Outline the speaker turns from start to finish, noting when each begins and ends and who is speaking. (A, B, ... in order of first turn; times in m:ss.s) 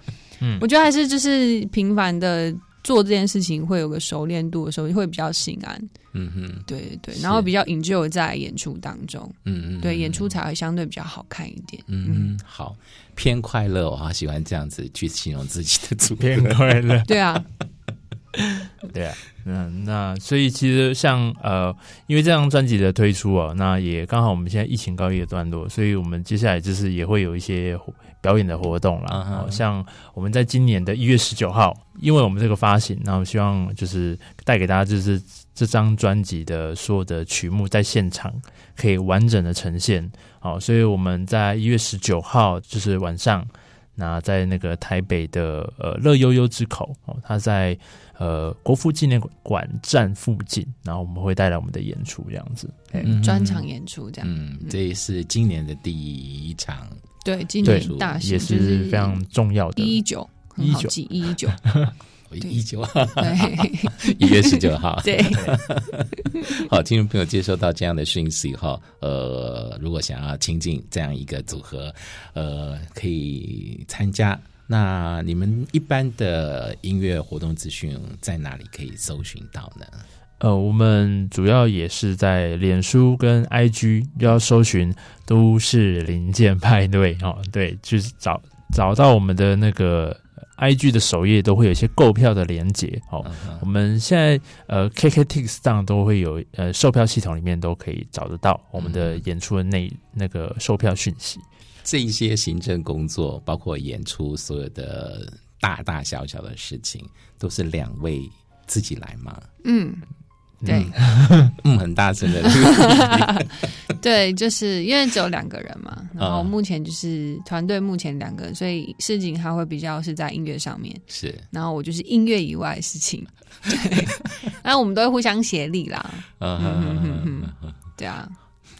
0:00.6-0:05.9 A
0:06.1-0:07.5 B
0:06.7-0:12.3 A
0:09.4-0:10.3 B
0:11.9-0:16.6 B
0:16.2-0:17.2 C
0:17.1-0:17.4 A
0:18.6-0:53.2 C
0:29.1-0:29.6 B
0:53.0-0:53.7 B
0:53.2-0:54.8 A
0:54.2-0:57.0 B
0:57.2-0:59.2 A
0:57.6-1:00.0 C
0:57.6-0:58.1 B
0:59.8-1:01.6 A
1:00.6-1:00.9 C
1:01.5-1:01.9 C
1:02.3-1:20.0 B
1:03.2-1:05.5 A
1:20.4-1:41.4 C
1:33.2-1:33.7 B
1:38.8-1:39.2 B
1:41.8-1:49.4 B
1:49.6-1:50.1 A
1:50.6-1:51.5 C
1:50.6-1:51.0 A
1:51.6-1:53.5 B
1:52.7-1:53.3 A
1:54.0-2:08.3 A
1:56.2-1:56.5 B
2:01.1-2:01.4 B
2:06.4-2:07.8 B